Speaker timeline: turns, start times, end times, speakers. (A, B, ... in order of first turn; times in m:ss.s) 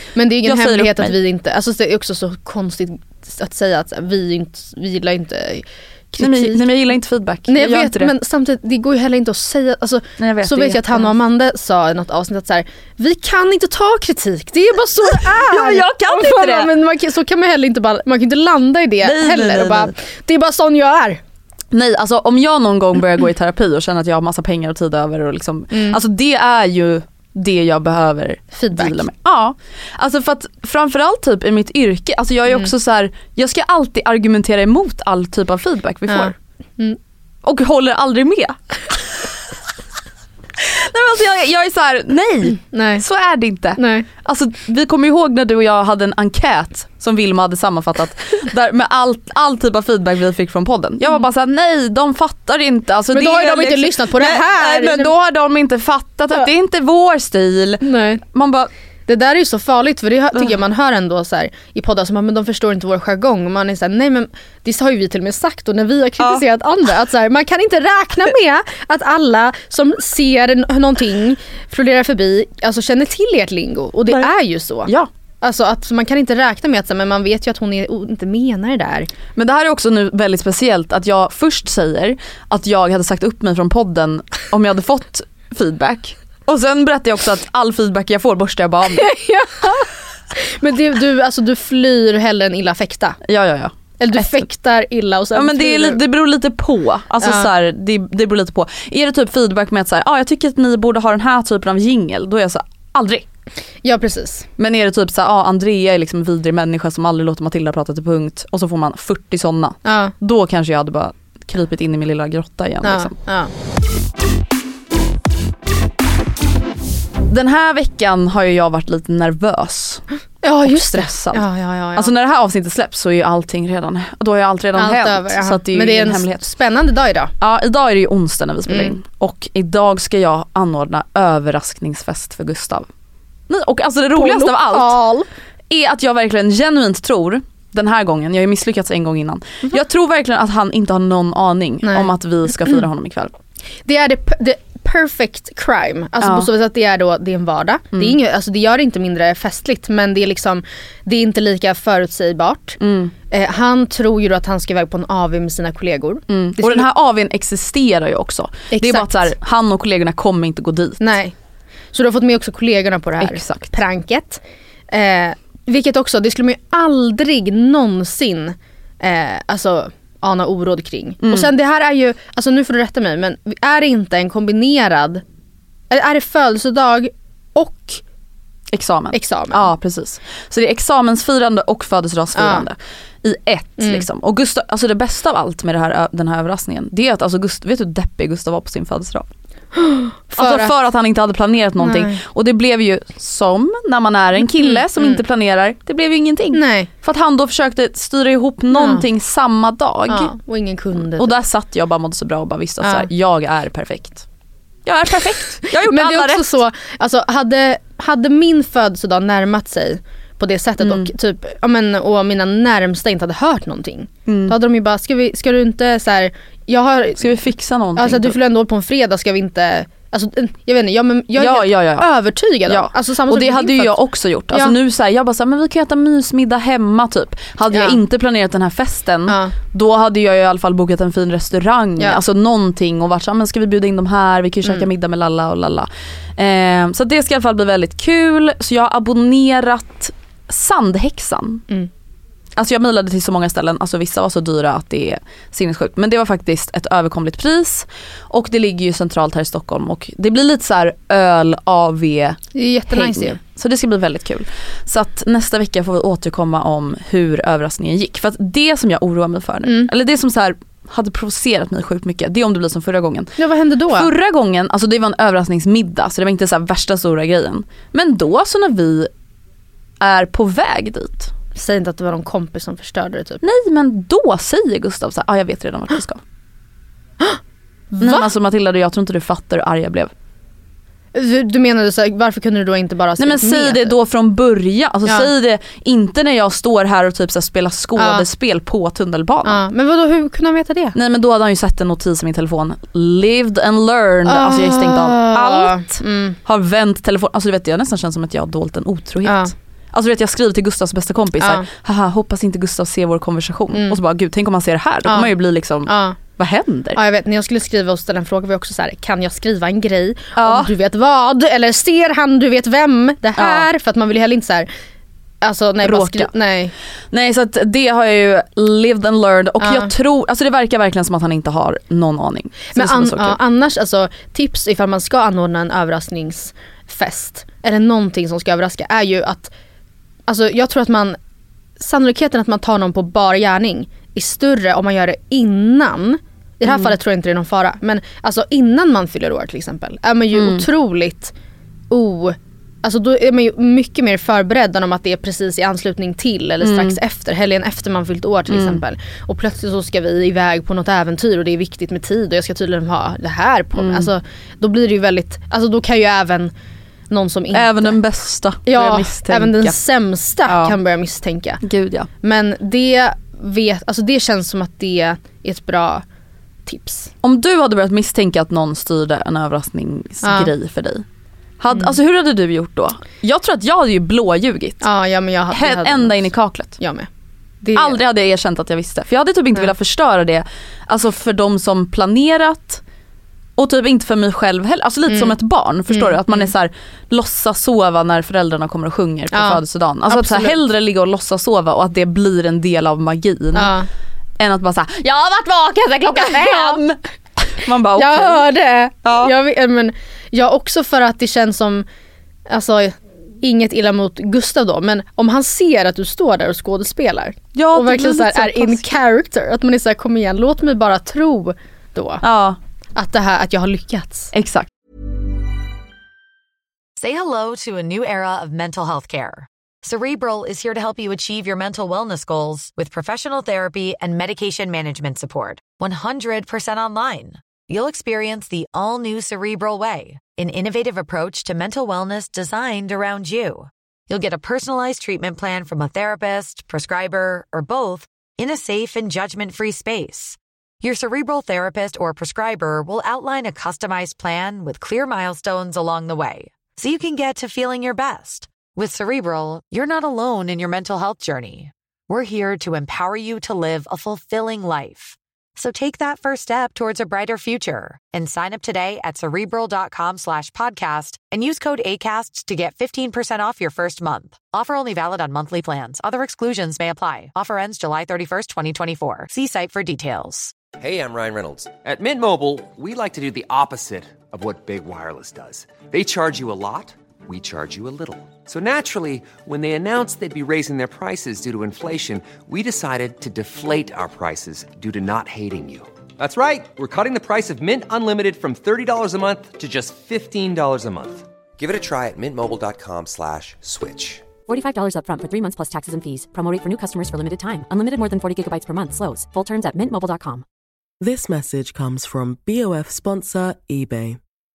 0:00.1-0:06.7 A
0:00.4-0:01.2 B
0:06.2-0:08.1 B
0:07.5-0:21.2 A
0:10.2-0:11.1 B
0:15.0-0:16.7 B
0:19.0-0:19.9 B
0:21.7-0:36.3 B
0:25.7-0:26.0 A
0:28.5-0:29.0 A
0:36.1-0:37.0 A
0:37.4-0:39.3 B
0:40.6-0:58.7 B
0:42.6-0:43.0 A
0:43.8-0:44.0 A
0:53.1-0:55.1 A
0:57.8-0:58.2 A
0:59.1-1:14.9 A
1:15.4-1:19.1 A
1:19.4-1:29.1 B
1:29.0-1:33.2 A
1:33.2-1:34.4 B
1:34.0-1:36.0 A
1:35.3-1:43.2 B
1:37.2-1:37.5 A
1:43.8-1:44.5 A
1:44.6-1:53.1 B
1:49.8-1:50.1 A
1:52.8-1:53.5 A
1:57.3-2:00.1 B
2:00.4-2:02.1 A
2:00.6-2:06.5 B
2:04.8-2:07.3 A
2:07.4-2:12.9 B
2:08.7-2:08.9 A
2:13.5-2:15.0 B
2:14.1-2:15.3 A
2:15.7-2:23.3 B
2:21.8-2:22.1 A
2:23.8-2:32.8 A
2:26.2-2:26.5 B
2:32.8-2:33.1 B
2:33.3-2:36.8 A
2:36.3-2:41.2 B
2:38.7-2:39.3 A
2:41.0-2:41.3 A
2:41.9-2:55.2 A
2:43.2-2:43.7 B
2:51.2-2:51.5 B
2:55.9-2:58.0 A
2:58.7-3:09.3 B
2:59.1-2:59.7 A
3:02.4-3:02.6 A
3:03.8-3:04.0 A
3:09.7-3:10.7 A
3:10.4-3:20.3 B
3:11.8-3:12.2 A
3:14.6-3:15.2 A
3:16.5-3:16.9 A
3:18.7-3:19.0 A
3:20.1-3:21.4 A
3:21.2-3:24.2 B
3:22.8-3:23.1 A
3:24.8-3:26.6 B
3:25.7-3:37.4 A
3:30.8-3:31.1 B
3:34.3-3:34.5 B
3:37.2-3:38.4 B
3:38.0-3:44.0 A
3:41.4-3:42.1 B
3:42.6-4:01.6 B
3:44.5-3:44.7 A
3:47.7-3:48.0 A
3:49.3-3:49.5 A
4:02.6-4:12.4 B
4:12.5-4:13.4 A
4:12.9-4:23.3 B
4:19.6-4:19.9 A
4:23.4-4:24.1 A
4:23.9-4:29.1 B
4:30.0-4:31.3 B
4:31.5-4:33.4 A
4:33.4-4:36.2 B
4:37.9-4:38.3 A
4:38.0-4:40.1 B
4:41.1-4:43.9 A
4:43.2-4:49.6 B
4:48.0-4:48.2 A
4:49.4-4:50.9 A
4:50.9-5:07.0 B
4:54.2-4:56.4 A
4:59.2-4:59.5 A
5:01.4-5:01.6 A
5:03.7-5:04.0 A
5:05.0-5:05.3 A
5:05.8-5:06.2 A
5:06.9-5:14.7 A
5:10.4-5:10.7 B
5:13.4-5:13.7 B
5:15.4-5:16.7 A
5:15.8-5:16.3 B
5:17.1-5:23.4 B
5:19.6-5:19.9 A
5:22.7-5:29.5 A
5:30.3-5:31.2 A
5:31.8-5:41.3 A
5:36.6-5:36.9 B
5:40.3-5:40.6 B
5:41.9-5:56.5 A
5:46.6-5:47.0 B
5:48.5-5:48.8 B
5:53.8-5:54.1 B
5:57.1-5:58.0 A
5:57.5-5:59.8 B
5:58.6-6:01.6 A
6:00.4-6:00.8 B
6:01.6-6:02.1 B
6:02.2-6:06.0 A
6:06.6-6:07.1 A
6:07.2-6:11.0 B
6:10.2-6:10.5 A
6:11.6-6:14.9 B
6:14.8-6:17.1 A
6:15.5-6:16.8 B
6:17.6-6:18.0 A
6:17.8-6:22.8 B
6:23.6-6:33.7 B
6:25.1-6:25.4 A
6:25.9-6:26.5 A
6:29.3-6:30.6 A
6:33.5-6:33.9 A
6:34.4-6:38.5 B
6:36.1-6:36.8 A
6:38.0-6:41.8 A
6:39.0-6:39.3 B
6:42.5-6:52.2 A
6:47.5-6:48.9 B
6:52.2-6:52.6 B
6:53.0-6:54.3 A
6:54.3-6:54.7 B
6:57.0-7:50.5 C
7:50.8-8:14.3 D
8:14.4-8:20.4 E
8:21.0-8:24.2 F